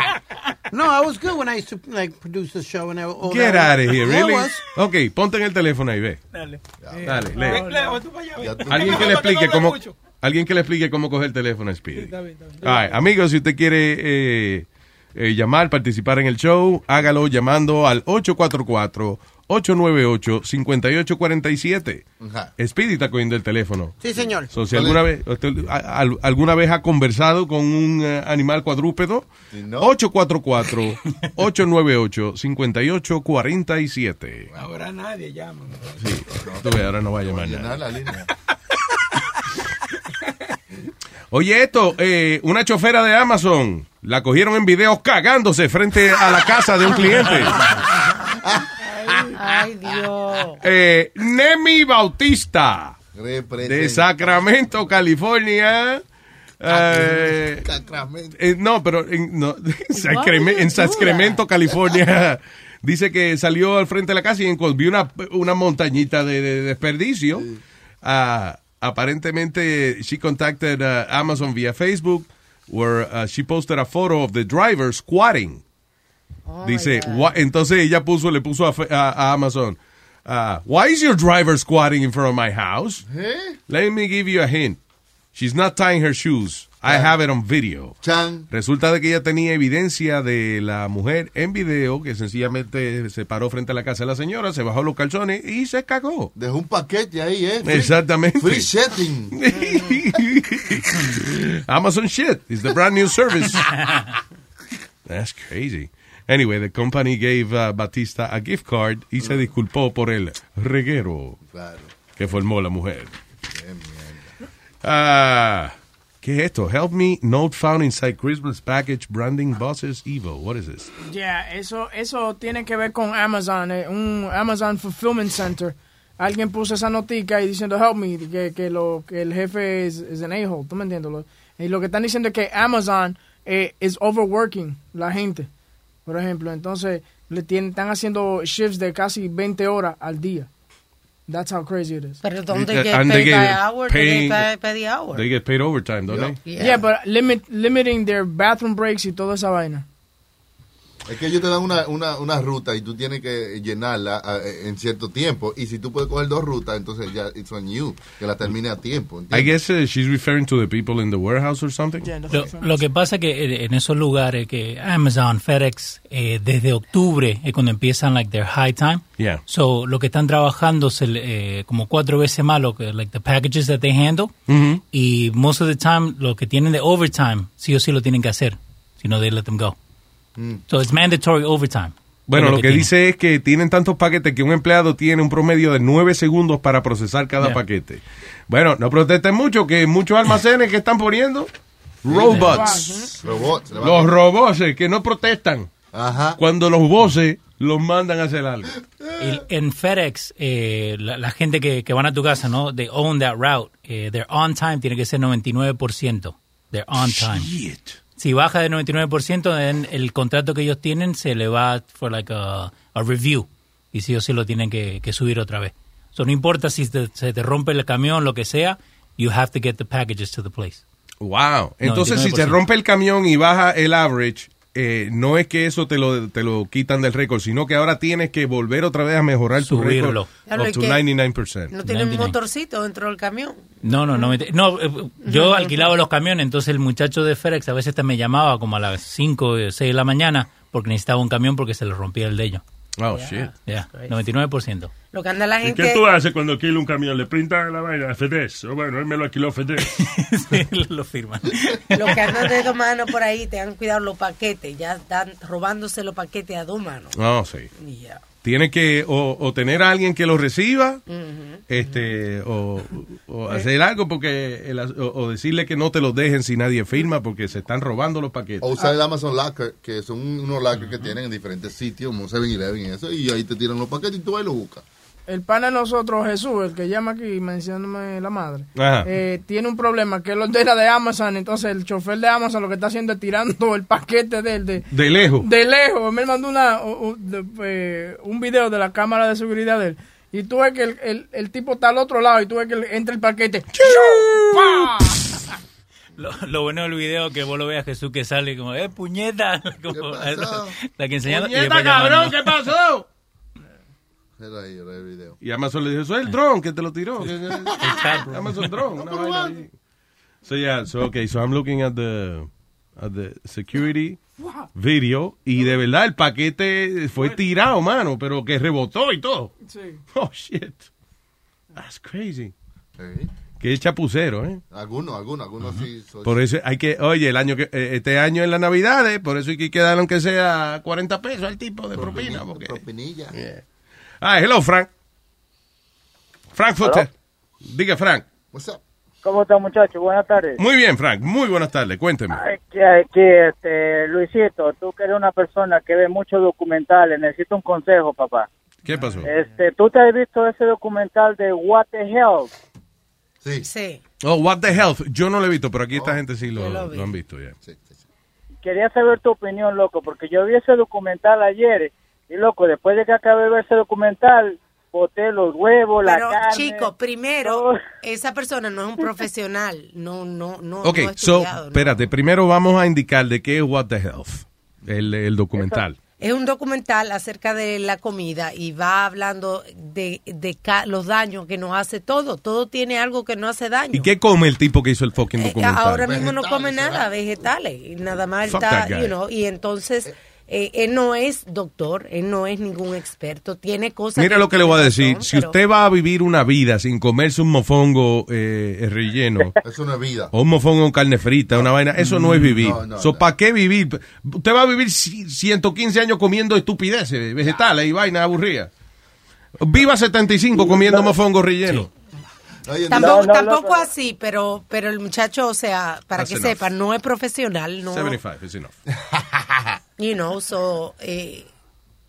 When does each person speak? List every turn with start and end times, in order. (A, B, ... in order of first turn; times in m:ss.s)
0:00.7-0:04.6 A
0:03.2-0:06.2 B
0:06.3-0:10.0 C
0:06.8-0:07.5 D
0:07.0-0:07.6 B
0:07.4-0:08.0 E
0:08.4-0:09.3 D
0:08.7-0:22.0 B
0:12.0-0:13.0 C
0:22.2-0:22.5 D
0:22.6-0:24.0 B
0:24.0-0:24.5 A
0:24.5-0:34.5 B
0:24.5-0:25.0 D
0:29.5-0:29.9 D
0:34.5-0:36.0 C
0:36.0-0:37.8 B
0:36.4-0:38.3 D
0:41.3-0:47.6 B
0:48.2-0:49.4 D
0:48.8-0:50.6 F
0:50.6-0:53.0 B
0:53.1-0:54.4 D
0:53.6-0:56.0 B
0:56.6-0:57.7 B
0:56.6-0:58.4 D
0:58.4-1:07.5 B
0:59.9-1:01.4 F
1:08.0-1:15.6 B
1:16.4-1:17.3 F
1:16.6-1:23.0 B
1:23.0-1:23.6 D
1:23.7-1:24.8 B
1:25.3-1:28.0 B
1:26.8-1:27.1 D
1:28.0-1:28.5 D
1:28.5-1:36.3 B
1:36.3-1:39.4 D
1:37.6-1:38.7 B
1:39.3-1:43.7 B
1:45.1-1:51.4 B
1:51.4-1:51.9 D
1:52.2-1:53.1 B
1:53.5-1:54.3 D
1:54.8-2:00.9 B
2:01.0-2:15.5 E
2:16.0-2:20.5 E
2:21.3-2:22.2 E
2:22.2-2:25.2 F
2:22.5-2:24.5 B
2:25.1-2:26.4 B
2:26.1-2:26.4 D
2:26.4-2:26.8 F
2:26.6-2:29.8 E
2:31.0-2:39.5 D
2:39.3-2:42.2 B
2:42.0-2:42.7 E
2:42.3-2:54.3 G
2:54.5-2:54.8 B
2:54.9-2:59.8 G
3:00.4-3:00.6 D
3:00.7-3:02.9 G
3:02.3-3:11.5 B
3:12.0-3:12.9 B
3:12.0-3:12.6 D
3:12.4-3:13.0 E
3:13.1-3:14.1 D
3:13.8-3:15.7 B
3:15.9-3:16.4 D
3:16.4-3:18.7 B
3:19.2-3:27.5 G
3:27.0-3:28.0 B
3:28.2-3:40.8 G
3:41.2-3:51.7 B
3:41.8-3:42.6 G
3:49.6-3:50.3 G
3:50.5-3:51.0 F
3:51.7-3:53.6 F
3:51.8-3:52.4 G
3:53.8-4:02.6 G
3:55.2-3:55.9 F
4:03.0-4:03.5 B
4:03.1-4:04.1 F
4:03.6-4:04.9 G
4:05.1-4:06.0 F
4:05.6-4:09.9 H
4:09.9-4:12.6 G
4:11.9-4:17.2 F
4:17.1-4:17.7 B
4:17.8-4:18.2 F
4:18.4-4:21.0 B
4:21.1-4:22.0 F
4:21.7-4:28.7 B
4:28.6-4:34.8 D
4:35.3-4:44.9 E
4:38.8-4:39.1 B
4:44.9-4:45.4 B
4:45.4-4:55.2 E
4:53.8-4:54.8 B
4:56.2-5:02.5 G
4:59.9-5:00.7 D
5:01.2-5:03.0 B
5:04.4-5:05.4 D
5:05.4-5:09.7 B
5:07.5-5:08.0 D
5:07.8-5:08.7 G
5:08.9-5:09.6 D
5:10.4-5:14.2 B
5:14.7-5:19.5 B
5:19.6-5:20.0 E
5:20.1-5:20.9 B
5:21.7-5:22.5 B
5:23.0-5:23.3 D
5:23.6-5:24.6 B
5:24.7-5:26.4 D
5:25.6-5:32.8 B
5:31.9-5:33.3 D
5:33.3-5:33.6 B
5:34.2-5:34.9 B
5:36.5-5:37.1 B
5:37.6-5:38.2 B
5:38.5-5:38.8 D
5:39.2-5:40.6 I
5:40.6-5:42.4 B
5:42.3-5:48.5 I
5:48.8-5:49.3 B
5:49.2-5:52.5 I
5:53.4-5:53.7 D
5:53.6-5:54.0 F
5:54.2-5:57.5 B
5:55.9-5:56.2 D
5:56.5-5:57.1 F
5:57.6-5:58.0 D
5:58.6-6:06.9 I
6:06.0-6:12.1 F
6:07.4-6:07.8 I
6:10.8-6:16.0 B
6:16.2-6:24.1 F
6:23.9-6:26.2 B
6:25.4-6:35.6 F
6:26.0-6:27.1 D
6:28.4-6:29.1 B
6:34.2-6:39.5 B
6:39.6-6:40.3 D
6:40.3-6:48.7 B
6:42.1-6:42.5 G
6:42.6-6:43.2 D
6:49.6-6:51.9 B
6:52.6-6:53.3 D
6:52.9-6:58.2 F
6:53.0-6:53.9 I
6:56.1-6:56.7 B
6:57.9-6:58.7 B
6:59.1-6:59.7 D
7:00.0-7:01.5 F